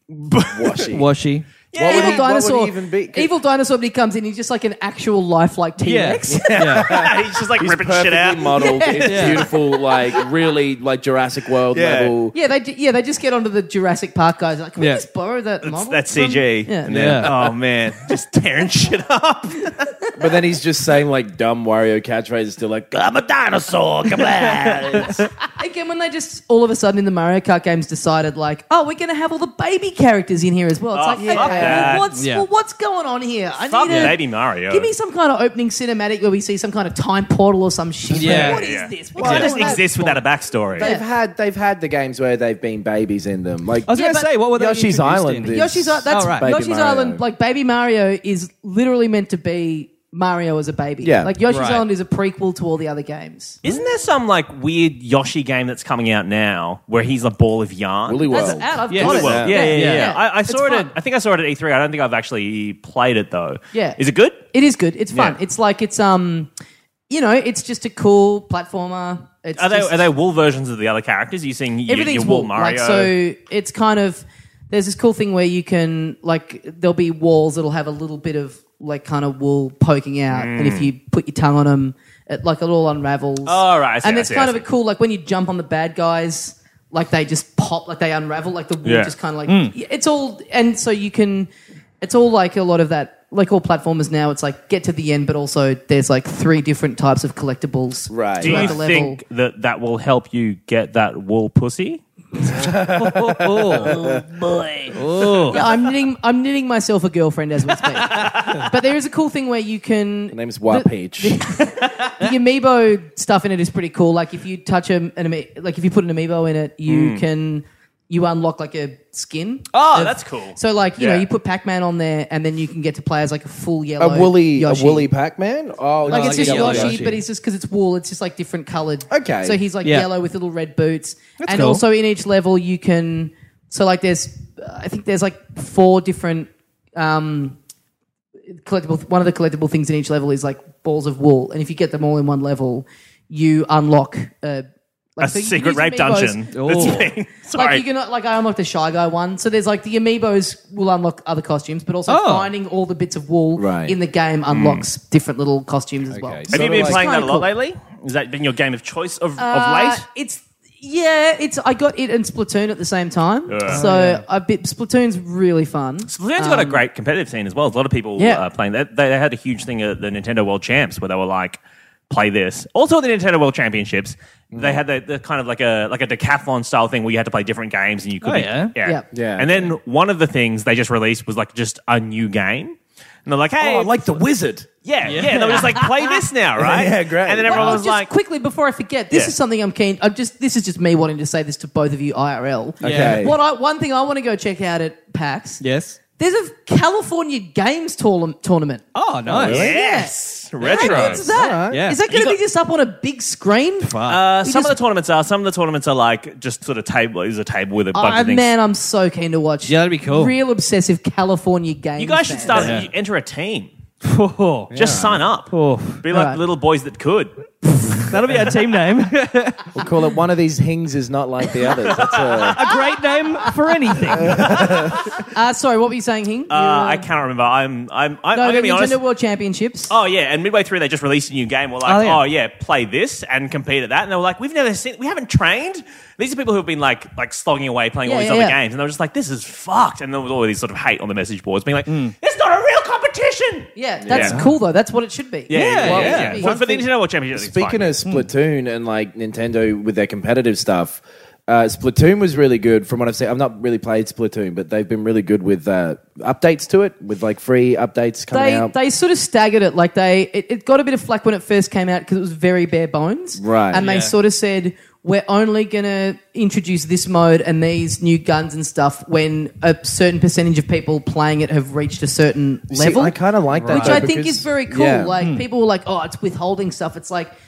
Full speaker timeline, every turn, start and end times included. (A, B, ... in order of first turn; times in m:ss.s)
0:00.2-0:00.9 A
0:00.5-0:01.1 B
0:00.9-0:01.5 C
0:01.7-0:02.3 A
0:01.7-0:03.3 B
0:01.8-0:06.8 D
0:05.8-0:07.0 C
0:06.3-0:12.3 B
0:06.8-0:08.6 A
0:08.5-0:10.2 D
0:09.0-0:09.4 C
0:11.7-0:12.1 A
0:12.3-0:17.0 D
0:14.8-0:15.0 C
0:15.6-0:19.8 A
0:16.9-0:17.3 C
0:16.9-0:17.3 B
0:20.2-0:25.2 B
0:24.1-0:24.9 A
0:25.5-0:40.2 D
0:30.9-0:32.1 A
0:31.2-0:32.0 B
0:32.1-0:32.4 C
0:33.7-0:34.9 A
0:33.9-0:34.1 C
0:38.1-0:38.6 C
0:38.3-0:40.9 A
0:39.1-0:40.1 B
0:40.7-0:47.2 B
0:40.8-0:41.0 D
0:43.9-0:46.5 C
0:43.9-0:44.3 D
0:45.4-0:53.6 D
0:51.0-0:51.3 B
0:51.4-0:51.8 C
0:53.6-1:04.4 A
0:58.1-0:59.8 B
0:58.3-1:00.9 D
0:58.9-1:00.1 C
1:03.7-1:06.5 D
1:07.1-1:10.1 D
1:09.6-1:13.1 A
1:11.9-1:31.5 D
1:20.3-1:20.9 A
1:23.4-1:24.6 A
1:28.8-1:29.1 A
1:29.5-1:29.7 C
1:32.0-1:39.2 D
1:38.1-1:38.8 B
1:38.4-1:42.0 A
1:42.5-1:44.2 B
1:43.0-1:44.0 C
1:44.9-1:45.6 C
1:45.5-2:05.1 D
1:48.1-1:48.5 A
1:50.3-1:51.4 B
1:56.9-1:57.2 A
1:59.7-2:01.2 A
2:04.0-2:07.0 B
2:06.0-2:07.2 C
2:06.1-2:17.6 D
2:09.1-2:09.6 B
2:09.8-2:10.1 C
2:11.4-2:11.8 C
2:18.6-2:24.6 D
2:25.2-2:37.5 D
2:25.2-2:27.8 A
2:26.5-2:27.1 C
2:32.1-2:32.5 C
2:33.6-2:33.9 B
2:34.5-2:34.8 A
2:36.1-2:37.1 B
2:36.5-2:40.0 A
2:39.4-2:46.8 D
2:43.5-2:43.8 A
2:43.7-2:44.2 C
2:46.1-3:04.2 A
2:48.2-2:48.4 D
2:54.5-2:54.8 B
2:58.2-2:58.7 C
2:59.1-2:59.7 B
3:03.6-3:04.7 B
3:04.8-3:08.1 A
3:05.0-3:05.7 C
3:06.6-3:07.8 B
3:07.5-3:15.6 D
3:12.8-3:13.3 C
3:12.8-3:13.3 B
3:15.6-3:16.0 C
3:16.2-3:18.8 D
3:18.9-3:19.7 C
3:19.2-3:19.7 B
3:19.4-3:21.2 A
3:19.4-3:24.8 D
3:20.6-3:21.8 B
3:21.7-3:22.0 C
3:22.1-3:22.4 A
3:23.8-3:24.2 C
3:24.1-3:28.5 A
3:27.9-3:32.8 D
3:29.7-3:30.3 C
3:32.0-3:33.7 A
3:32.5-3:32.9 C
3:34.0-3:34.7 C
3:34.7-3:35.2 B
3:34.7-3:37.3 A
3:35.5-3:36.0 C
3:36.1-3:36.4 D
3:38.1-3:39.8 C
3:39.7-3:42.6 B
3:41.9-3:42.6 A
3:42.5-3:44.4 C
3:44.2-3:45.0 B
3:44.3-3:45.1 A
3:45.2-3:47.0 D
3:46.5-3:49.0 A
3:48.3-3:49.9 D
3:49.9-4:04.4 A
3:51.8-3:52.2 C
3:58.0-3:58.6 D
4:01.9-4:02.1 C
4:03.8-4:06.7 D
4:04.0-4:04.4 B
4:05.5-4:07.9 A
4:05.5-4:06.4 C
4:05.8-4:06.8 B
4:07.3-4:18.7 B
4:18.3-4:33.2 D
4:23.4-4:23.8 B
4:23.8-4:24.1 C
4:32.7-4:35.1 B
4:33.6-4:34.0 C
4:33.7-4:37.3 D
4:35.2-4:35.4 C